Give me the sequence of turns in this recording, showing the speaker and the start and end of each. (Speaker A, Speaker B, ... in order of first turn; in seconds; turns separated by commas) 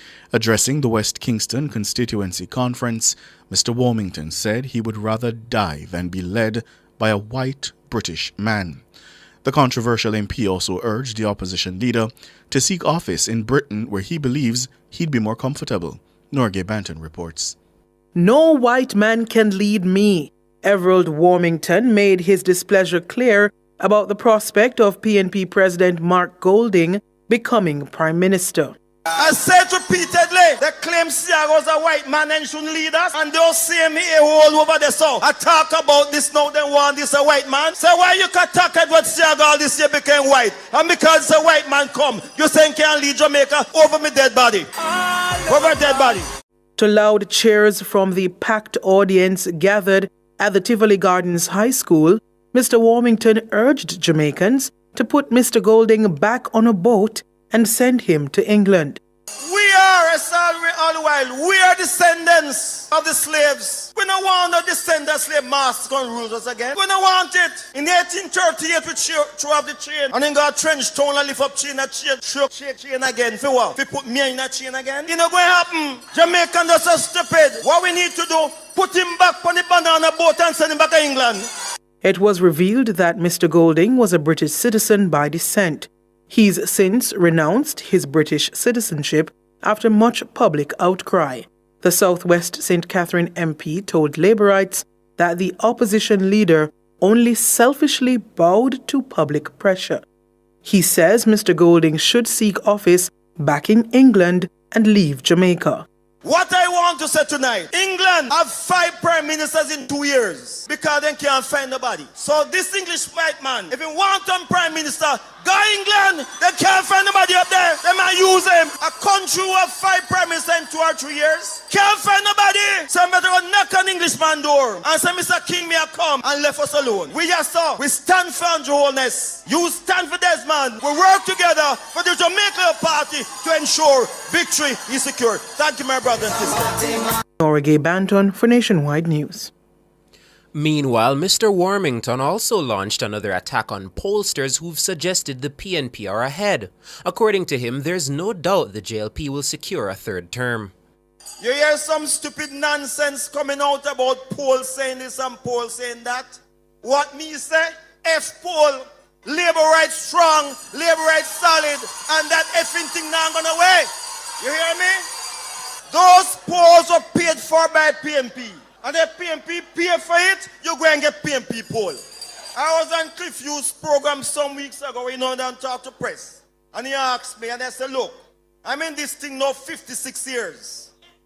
Speaker A: 0.3-8.8, Speaker A: 9.4-17.6, Speaker B: 18.1-28.8, Speaker C: 29.2-46.2, Speaker B: 46.8-59.0, Speaker C: 59.5-81.5, Speaker B: 82.0-100.0, Speaker B: 100.6-105.8, Speaker C: 106.2-136.9, Speaker B: 137.4-139.5, Speaker D: 140.5-150.7, Speaker C: 151.4-165.0, Speaker C: 165.9-172.0, Speaker C: 172.6-180.9